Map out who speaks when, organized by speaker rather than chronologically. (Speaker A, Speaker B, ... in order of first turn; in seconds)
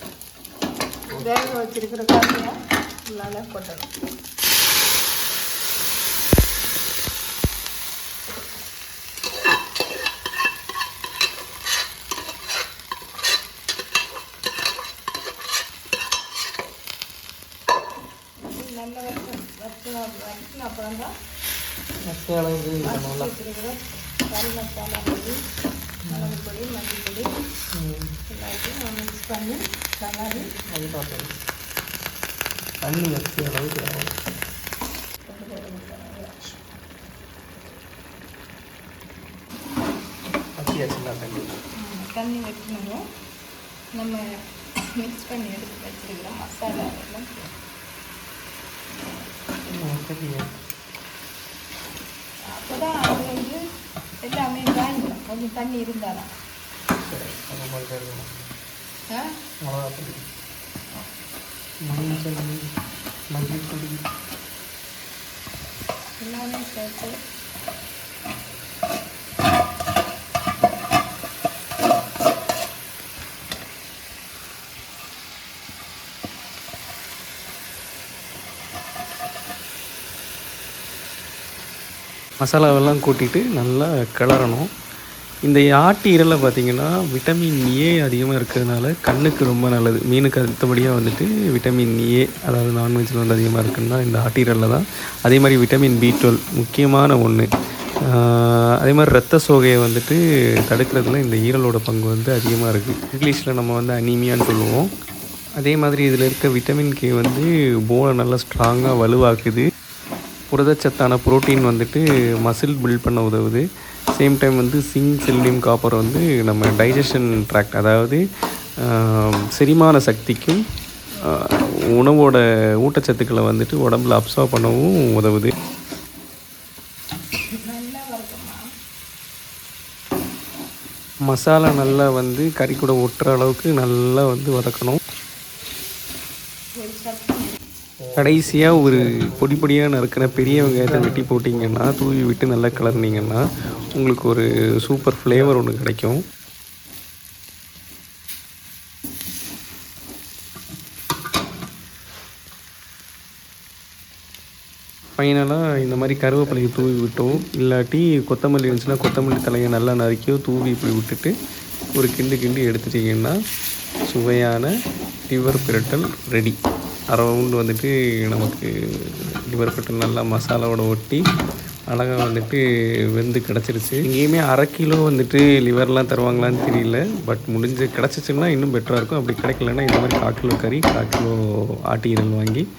Speaker A: 1.1-2.5, 3.1-3.9, 18.4-21.1, 22.8-25.3, 26.1-27.3, 28.3-30.4, 35.3-36.6, 41.8-43.0, 44.0-44.2, 45.0-47.5, 52.5-53.6, 54.2-56.3, 66.2-67.2, 127.5-128.6, 136.8-137.6
Speaker B: 22.1-23.3, 30.7-31.3, 32.8-34.1, 40.6-41.5, 49.7-50.5, 57.0-58.3, 59.6-60.2, 61.9-62.6, 63.3-64.0, 82.4-84.7, 85.5-97.5, 98.1-104.9, 105.6-109.7, 110.5-113.7, 114.2-118.2, 118.8-120.6, 121.3-125.5, 131.3-135.0, 138.2-146.2, 155.2-161.3, 162.0-163.3, 164.1-164.7, 165.3-166.6, 167.1-171.2, 171.9-172.6, 173.1-181.4, 181.9-182.7